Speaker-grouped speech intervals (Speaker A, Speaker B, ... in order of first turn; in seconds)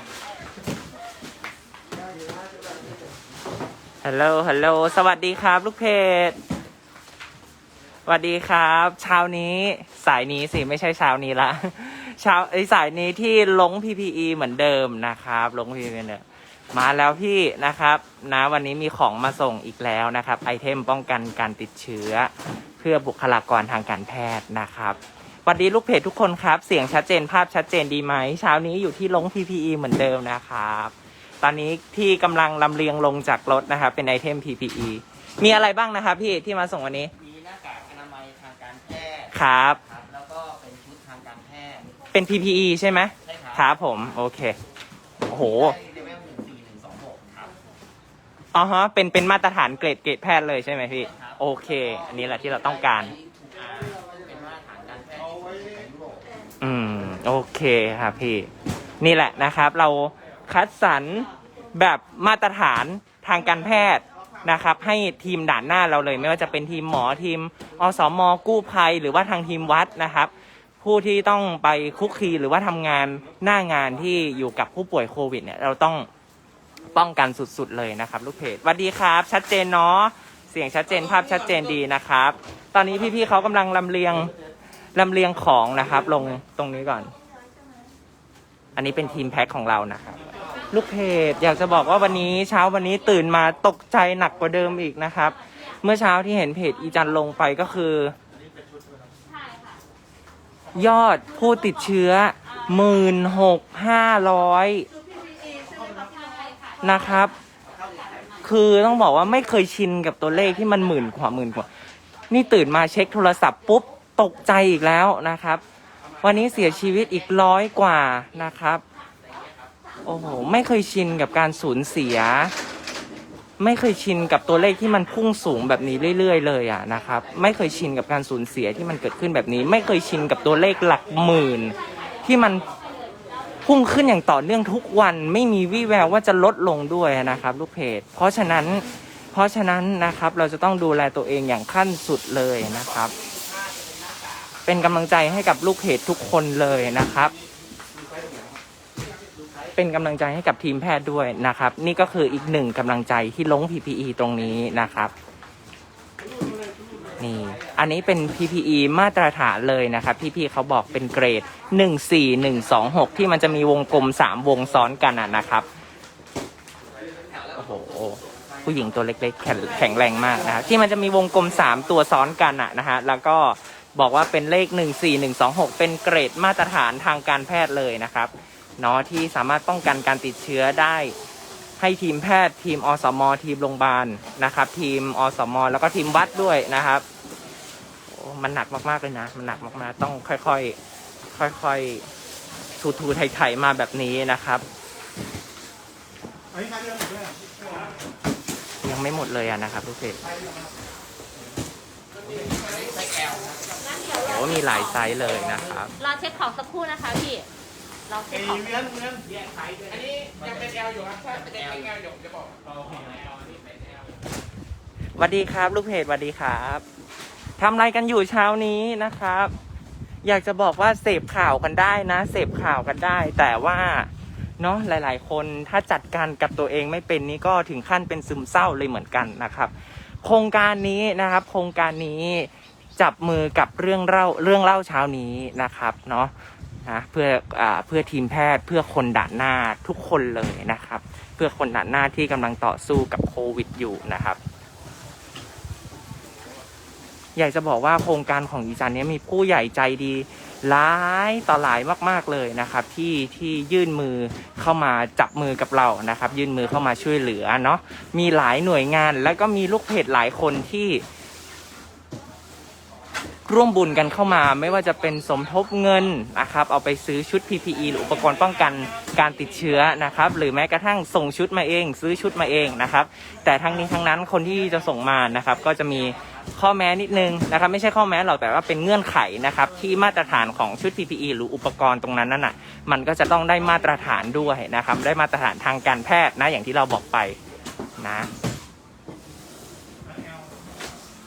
Speaker A: 4.0-6.4, 8.1-37.1, 39.3-39.8, 42.1-44.6, 45.3-45.7, 48.5-53.1, 56.6-58.5, 59.0-76.1, 76.9-84.3, 84.9-87.1, 88.8-98.2, 100.8-104.9, 106.8-107.3, 108.4-111.7, 112.3-115.6, 116.2-118.8, 120.0-122.5, 123.6-132.7, 133.6-143.1, 144.6-147.3, 149.8-155.1, 157.2-165.7, 167.5-181.1, 181.8-187.0, 188.1-190.8, 191.3-192.1, 192.8-194.6, 198.8-200.2, 204.2-205.9, 215.2-216.8, 217.6-219.5, 220.2-229.7, 230.2-236.3, 236.8-244.4, 247.3-261.0, 263.5-287.4, 288.0-288.3
Speaker B: 37.2-42.0, 43.2-43.7, 45.3-47.5, 50.9-56.3, 148.0-148.5, 202.5-203.6, 209.7-212.1
Speaker C: 99.2-99.8, 105.7-106.8, 203.9-204.9, 206.0-207.4, 208.1-209.0